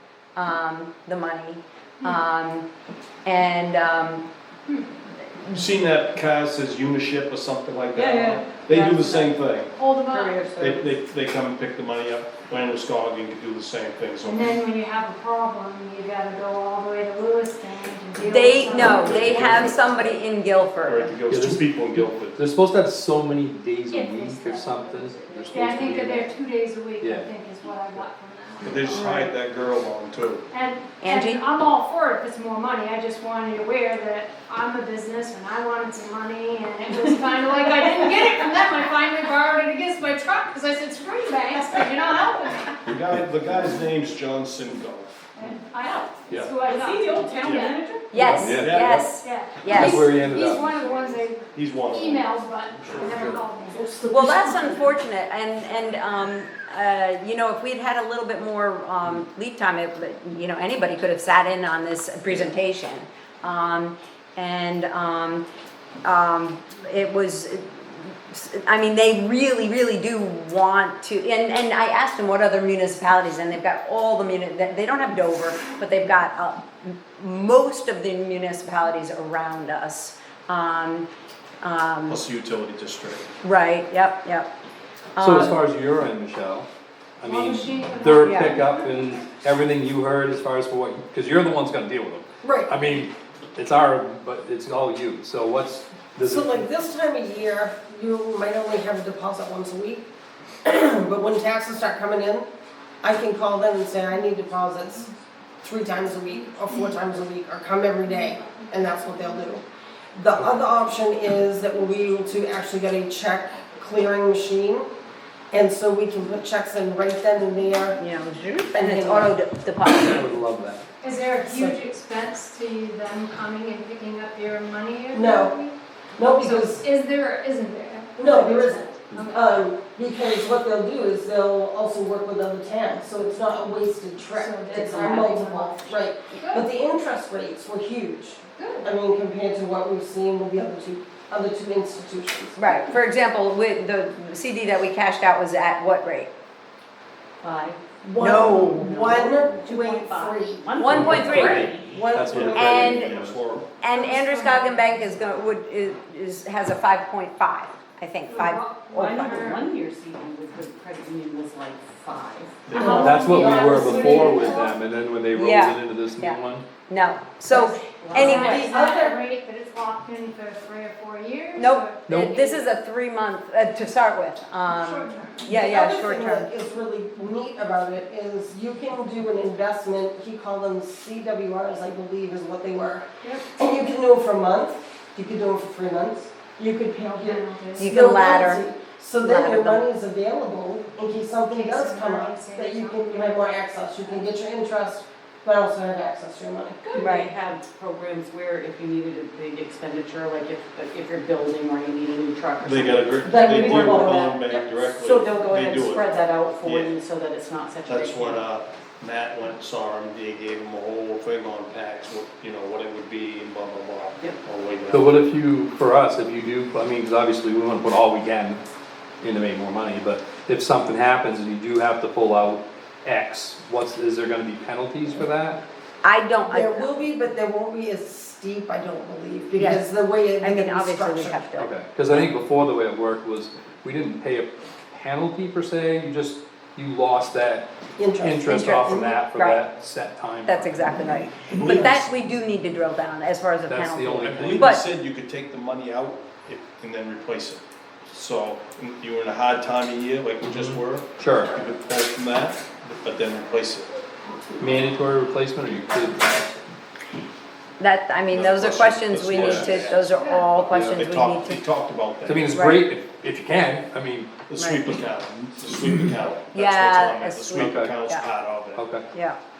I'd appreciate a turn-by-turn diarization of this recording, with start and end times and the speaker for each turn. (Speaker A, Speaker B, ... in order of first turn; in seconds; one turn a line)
Speaker A: 0.3-2.7
Speaker A: 3.2-4.2
Speaker A: 5.3-5.6
Speaker B: 5.5-9.8
Speaker C: 7.9-9.3
Speaker D: 9.7-10.5
Speaker C: 10.1-10.9
Speaker B: 10.4-14.6
Speaker D: 14.2-19.8
Speaker A: 18.2-21.1
Speaker B: 18.9-20.1
Speaker B: 20.8-22.4
Speaker E: 21.3-26.3
Speaker D: 23.9-29.3
Speaker E: 27.0-27.3
Speaker B: 28.6-30.5
Speaker D: 30.5-42.9
Speaker A: 31.0-31.4
Speaker B: 42.9-45.1
Speaker D: 45.3-47.8
Speaker C: 45.8-48.5
Speaker B: 47.4-47.7
Speaker A: 48.1-50.2
Speaker E: 48.2-50.8
Speaker B: 48.4-49.1
Speaker D: 49.1-54.0
Speaker B: 51.4-52.3
Speaker B: 52.8-53.4
Speaker F: 53.8-54.5
Speaker A: 54.1-65.4
Speaker A: 66.0-81.1
Speaker A: 81.6-82.2
Speaker B: 82.1-83.3
Speaker A: 83.4-84.5
Speaker A: 85.2-85.5
Speaker E: 85.2-86.7
Speaker E: 87.2-96.6
Speaker D: 87.2-89.3
Speaker A: 88.2-88.6
Speaker F: 92.4-92.7
Speaker F: 96.2-100.0
Speaker F: 100.6-102.5
Speaker F: 103.0-114.9
Speaker D: 108.1-109.2
Speaker F: 115.5-118.0
Speaker A: 118.0-120.2
Speaker F: 118.7-119.3
Speaker E: 119.9-120.8
Speaker D: 121.0-125.7
Speaker F: 121.5-121.8
Speaker F: 125.1-125.5
Speaker F: 126.2-126.8
Speaker D: 126.4-129.6
Speaker F: 128.2-142.6
Speaker E: 129.1-129.4
Speaker D: 134.3-136.7
Speaker C: 134.8-135.3
Speaker D: 138.6-138.8
Speaker A: 142.6-146.3
Speaker C: 147.4-152.0
Speaker F: 148.0-152.7
Speaker A: 148.2-148.8
Speaker A: 150.8-151.7
Speaker E: 150.8-153.5
Speaker B: 152.2-153.7
Speaker A: 152.5-153.2
Speaker A: 153.8-159.5
Speaker D: 153.9-155.0
Speaker D: 158.3-159.6
Speaker C: 158.9-163.0
Speaker B: 162.7-163.3
Speaker D: 162.7-164.8
Speaker F: 162.8-164.4
Speaker E: 162.9-166.7
Speaker A: 165.3-168.7
Speaker C: 167.5-168.7
Speaker D: 168.1-172.7
Speaker F: 168.3-169.2
Speaker A: 171.6-176.5
Speaker D: 174.7-175.4
Speaker F: 175.4-196.8
Speaker D: 187.1-187.9
Speaker A: 187.8-188.6
Speaker A: 189.2-189.8
Speaker D: 191.5-194.3
Speaker C: 196.8-208.5
Speaker A: 197.0-197.3
Speaker B: 202.6-206.1
Speaker F: 203.2-204.3
Speaker B: 206.6-206.9
Speaker B: 207.8-215.3
Speaker E: 214.9-218.6
Speaker E: 219.2-225.6
Speaker A: 226.0-226.9
Speaker F: 226.5-231.4
Speaker A: 229.5-229.8
Speaker A: 230.4-231.7
Speaker E: 231.6-237.7
Speaker F: 238.0-239.1
Speaker E: 238.2-240.9
Speaker A: 238.5-239.6
Speaker A: 240.4-244.8
Speaker B: 241.5-242.1
Speaker E: 243.7-244.8
Speaker B: 244.2-253.9
Speaker E: 250.4-251.6
Speaker C: 254.3-254.7
Speaker E: 254.6-256.6
Speaker A: 257.8-261.6
Speaker B: 258.3-262.6
Speaker E: 259.3-259.8
Speaker D: 260.1-260.6
Speaker E: 260.7-261.0
Speaker E: 262.2-264.4
Speaker A: 262.5-262.8
Speaker B: 264.5-268.8
Speaker A: 264.6-264.9
Speaker A: 266.5-268.2
Speaker E: 267.4-268.0
Speaker E: 268.7-269.0
Speaker A: 269.1-269.4